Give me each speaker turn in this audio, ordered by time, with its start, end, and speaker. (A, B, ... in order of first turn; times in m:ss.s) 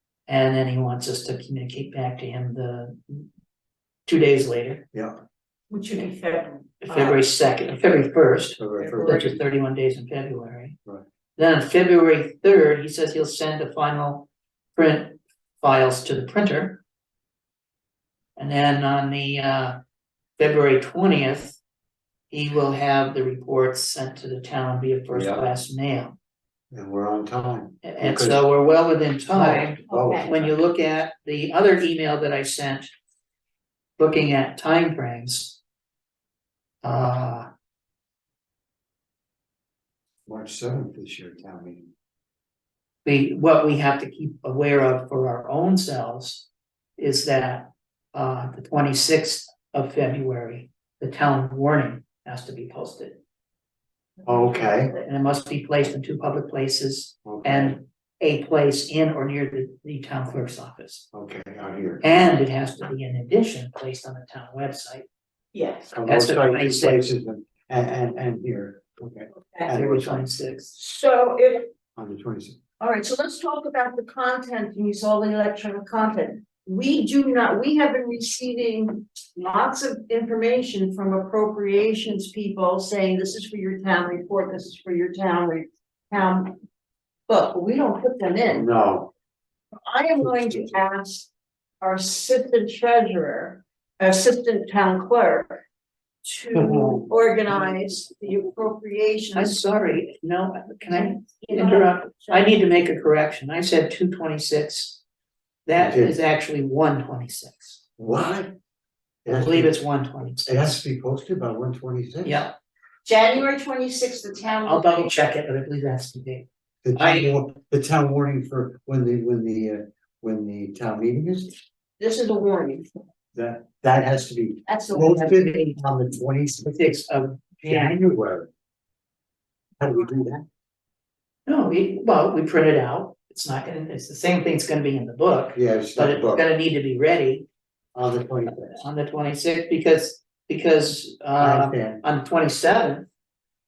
0:00.3-0:03.3 A
0:04.1-0:04.8 A
0:04.9-0:05.2 B
0:05.7-0:07.3 C
0:06.8-0:10.8 A
0:08.6-0:09.4 B
0:08.8-0:09.2 C
0:11.4-0:16.8 A
0:18.4-0:19.8 A
0:20.4-0:21.6 A
0:22.3-0:26.2 A
0:25.1-0:25.5 B
0:26.7-0:28.5 B
0:27.8-0:32.9 A
0:29.3-0:30.6 B
0:29.9-0:30.3 C
0:34.0-0:35.6 A
0:36.8-0:37.5 A
0:40.3-0:41.9 B
0:43.0-0:53.2 A
0:54.2-0:55.0 B
0:54.9-1:01.0 A
0:57.2-0:57.8 B
1:01.1-1:02.0 B
1:02.0-1:05.1 A
1:05.5-1:05.9 C
1:05.9-1:10.3 B
1:06.1-1:07.0 A
1:09.3-1:09.7 C
1:09.7-1:10.7 A
1:10.8-1:11.7 C
1:12.0-1:12.6 B
1:12.8-1:26.6 C
1:27.3-1:28.7 C
1:28.5-1:29.1 B
1:29.8-1:35.6 C
1:30.2-1:30.7 B
1:36.2-1:39.6 C
1:36.5-1:37.1 B
1:39.4-1:45.0 A
1:40.9-1:42.6 C
1:45.7-1:47.8 A
1:45.8-1:46.2 B
1:48.0-1:48.5 B
1:49.2-1:49.8 B
1:49.3-1:50.5 A
1:50.4-1:52.5 B
1:52.2-1:52.6 A
1:53.0-1:55.1 C
1:54.6-1:57.3 A
1:56.8-2:01.6 B
2:02.0-2:02.9 C
2:03.3-2:07.0 B
2:04.7-2:05.5 C
2:05.1-2:05.7 A
2:06.7-2:08.0 A
2:07.6-2:08.5 B
2:09.8-2:10.4 B
2:11.5-2:17.5 A
2:15.6-2:16.5 B
2:18.0-2:18.8 B
2:18.5-2:23.1 A
2:21.4-2:22.0 B